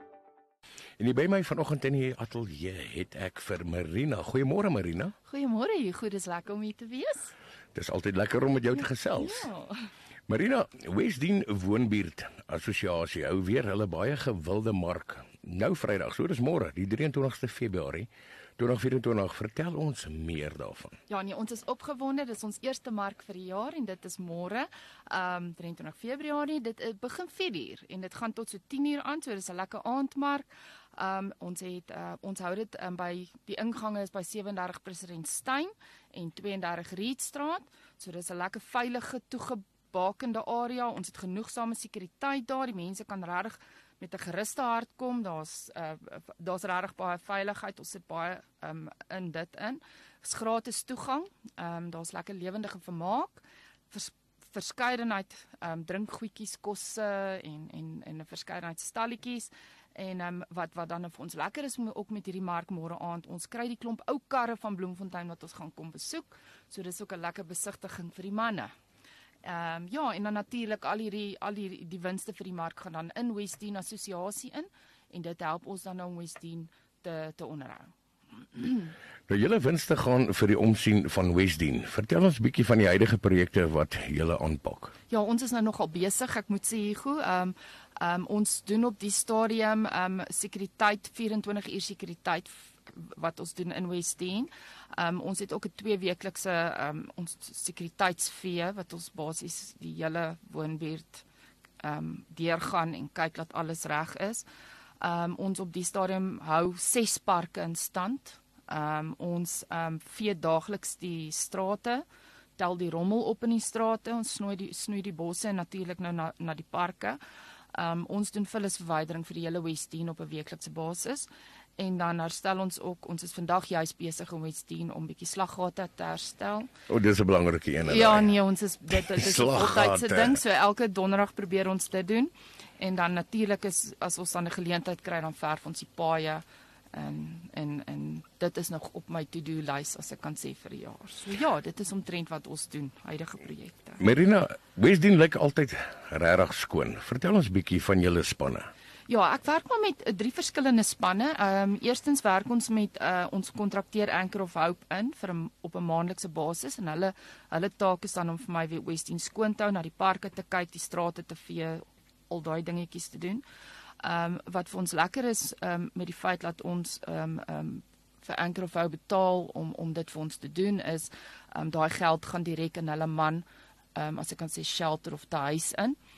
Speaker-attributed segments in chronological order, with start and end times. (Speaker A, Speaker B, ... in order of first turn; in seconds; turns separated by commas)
Speaker A: 1.0-5.2, Speaker B: 5.3-7.3, Speaker A: 7.8-9.5, Speaker B: 9.1-9.9, Speaker A: 10.3-21.0, Speaker B: 21.1-68.7, Speaker B: 69.4-77.9, Speaker B: 78.4-78.9, Speaker A: 79.3-84.9, Speaker B: 85.1-101.2, Speaker B: 101.8-104.5, Speaker B: 105.0-112.0, Speaker B: 112.6-117.2, Speaker B: 117.7-126.7, Speaker A: 126.9-128.3, Speaker B: 127.8-144.0, Speaker A: 128.9-130.4, Speaker A: 144.0-148.7, Speaker B: 149.1-163.4, Speaker B: 164.0-176.0